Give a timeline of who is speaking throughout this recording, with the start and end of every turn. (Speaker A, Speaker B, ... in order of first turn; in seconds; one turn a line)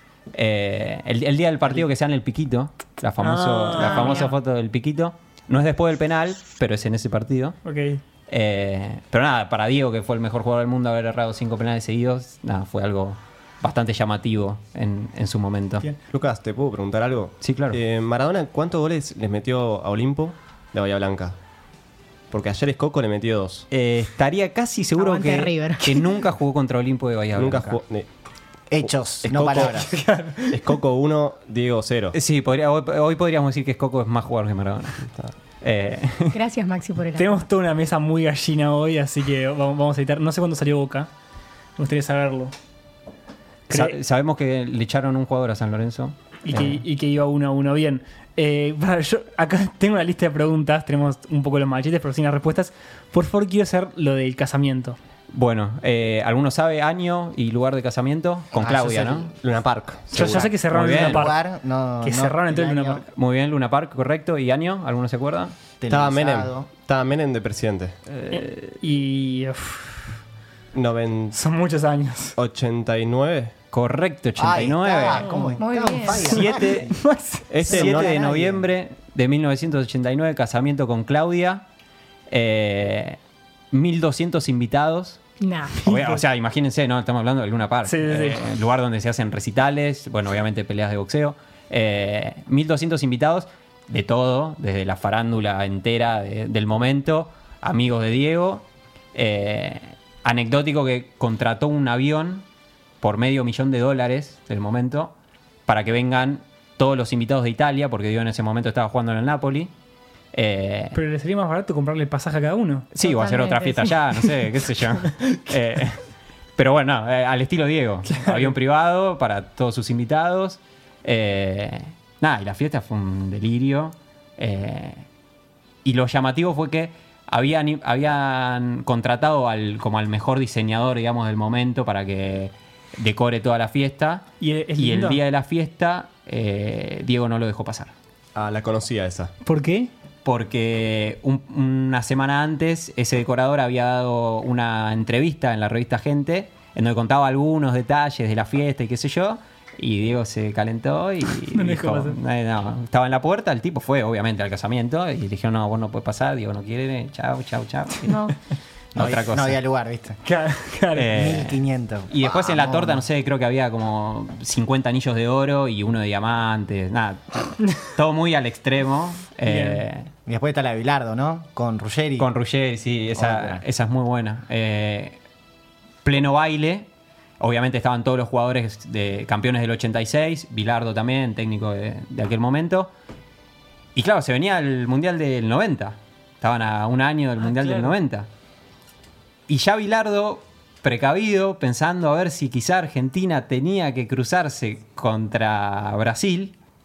Speaker A: 0.3-7.6
Speaker B: 3.2-4.3
Speaker C: 3.8-4.3
Speaker B: 7.7-8.0
Speaker A: 8.3-15.9
Speaker D: 16.0-21.4
Speaker A: 17.4-17.8
Speaker D: 22.3-23.7
Speaker A: 23.7-27.8
Speaker C: 25.0-26.2
Speaker D: 27.4-28.1
Speaker E: 28.7-29.9
Speaker D: 29.2-29.9
Speaker B: 29.8-30.6
Speaker D: 30.5-32.2
Speaker A: 32.1-35.1
Speaker A: 35.6-36.4
Speaker C: 36.3-37.4
Speaker B: 37.2-41.1
Speaker B: 41.8-42.5
Speaker A: 43.7-46.8
Speaker B: 43.7-44.0
Speaker B: 46.5-55.0
Speaker A: 55.3-59.3
Speaker E: 58.5-59.3
Speaker D: 59.4-60.4
Speaker A: 60.1-61.3
Speaker B: 60.1-61.4
Speaker E: 60.9-63.0
Speaker B: 62.0-63.0
Speaker A: 63.1-65.5
Speaker E: 65.8-66.7
Speaker D: 65.9-68.0
Speaker A: 68.1-68.5
Speaker B: 68.3-70.2
Speaker D: 70.7-71.4
Speaker B: 71.3-72.3
Speaker D: 72.4-73.5
Speaker A: 73.7-75.3
Speaker E: 74.4-76.9
Speaker C: 75.6-76.3
Speaker A: 76.2-77.0
Speaker B: 76.3-77.7
Speaker D: 77.5-78.3
Speaker A: 77.6-81.7
Speaker E: 77.7-78.6
Speaker A: 82.3-83.2
Speaker A: 83.7-85.2
Speaker C: 85.4-85.8
Speaker B: 85.8-86.2
Speaker A: 85.8-102.5
Speaker B: 87.9-88.4
Speaker A: 103.0-105.2
Speaker A: 105.7-109.7
Speaker A: 110.3-111.0
Speaker B: 110.9-112.9
Speaker A: 112.9-116.0
Speaker C: 113.0-114.0
Speaker A: 116.6-125.1
Speaker B: 118.1-118.5
Speaker A: 125.8-137.9
Speaker B: 134.4-135.2
Speaker D: 138.3-139.3
Speaker B: 139.4-139.9
Speaker A: 140.2-158.2
Speaker B: 151.5-152.2
Speaker C: 158.1-158.4
Speaker A: 158.9-159.6
Speaker E: 158.9-160.2
Speaker B: 160.2-161.1
Speaker A: 160.9-170.1
Speaker E: 161.0-163.1
Speaker B: 169.4-169.8
Speaker E: 170.3-172.3
Speaker A: 172.2-175.2
Speaker E: 173.2-173.6
Speaker A: 176.0-176.9
Speaker A: 177.4-182.9
Speaker A: 183.9-188.3
Speaker A: 189.5-196.6